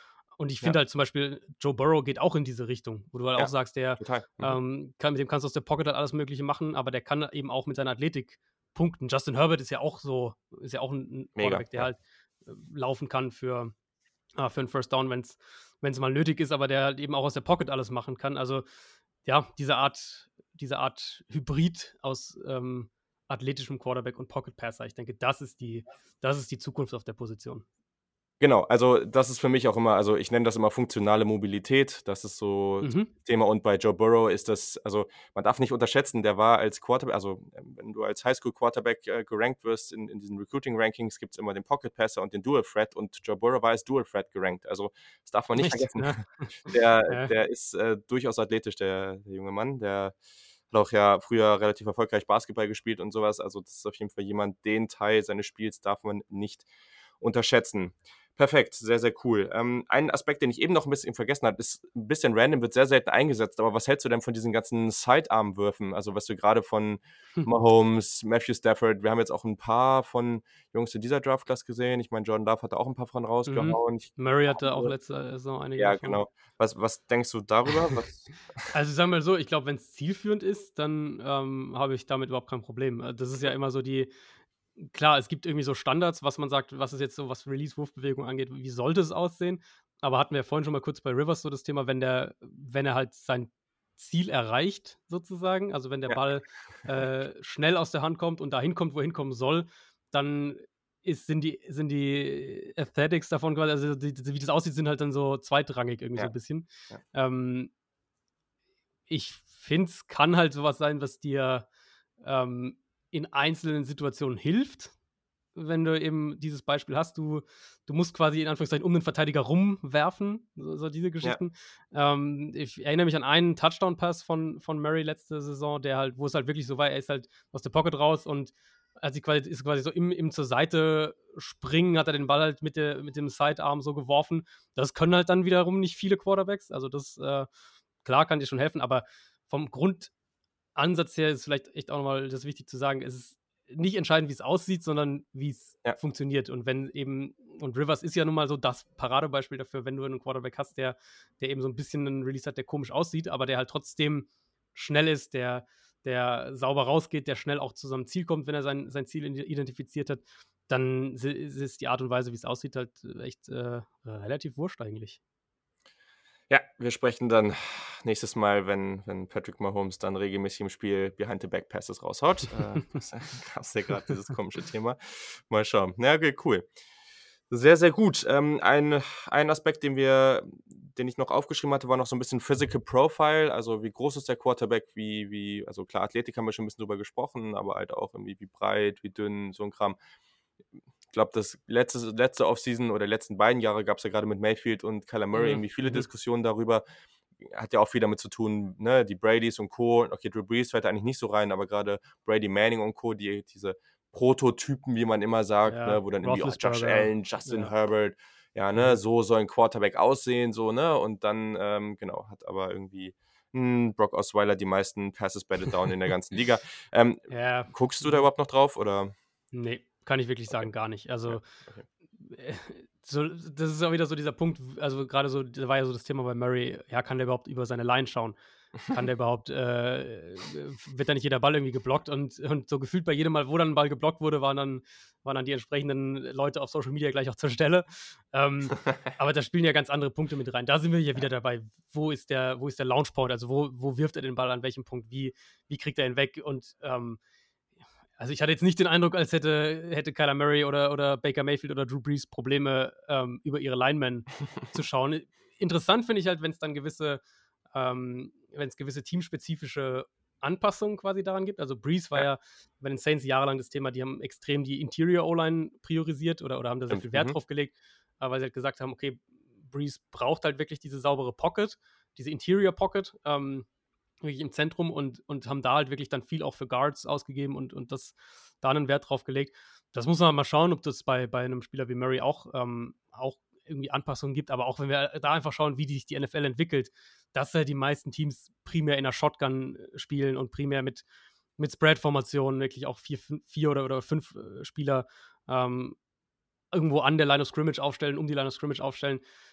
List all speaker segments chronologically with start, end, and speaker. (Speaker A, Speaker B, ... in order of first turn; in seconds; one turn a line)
Speaker A: 0.4-13.7
Speaker B: 3.4-4.6
Speaker B: 11.3-11.9
Speaker A: 14.4-18.6
Speaker A: 19.2-27.6
Speaker B: 28.4-50.1
Speaker A: 32.8-33.1
Speaker A: 45.5-47.3
Speaker B: 50.7-56.6
Speaker B: 57.2-74.9
Speaker A: 73.5-76.2
Speaker B: 75.8-78.7
Speaker A: 78.7-84.1
Speaker A: 84.8-107.7
Speaker A: 109.1-111.7
Speaker A: 112.2-114.9
Speaker A: 115.5-137.5
Speaker A: 138.0-140.1
Speaker A: 140.8-165.2
Speaker B: 166.5-176.7
Speaker B: 177.5-190.0
Speaker B: 191.1-196.8
Speaker A: 195.3-196.1
Speaker B: 197.4-219.1
Speaker A: 205.7-207.7
Speaker A: 217.3-218.2
Speaker A: 219.5-221.4
Speaker B: 221.3-221.8
Speaker A: 222.2-228.3
Speaker A: 228.9-247.2
Speaker A: 248.2-257.2
Speaker A: 257.7-273.6
Speaker B: 266.9-267.4
Speaker A: 274.2-291.0
Speaker A: 291.6-295.9
Speaker A: 296.7-299.2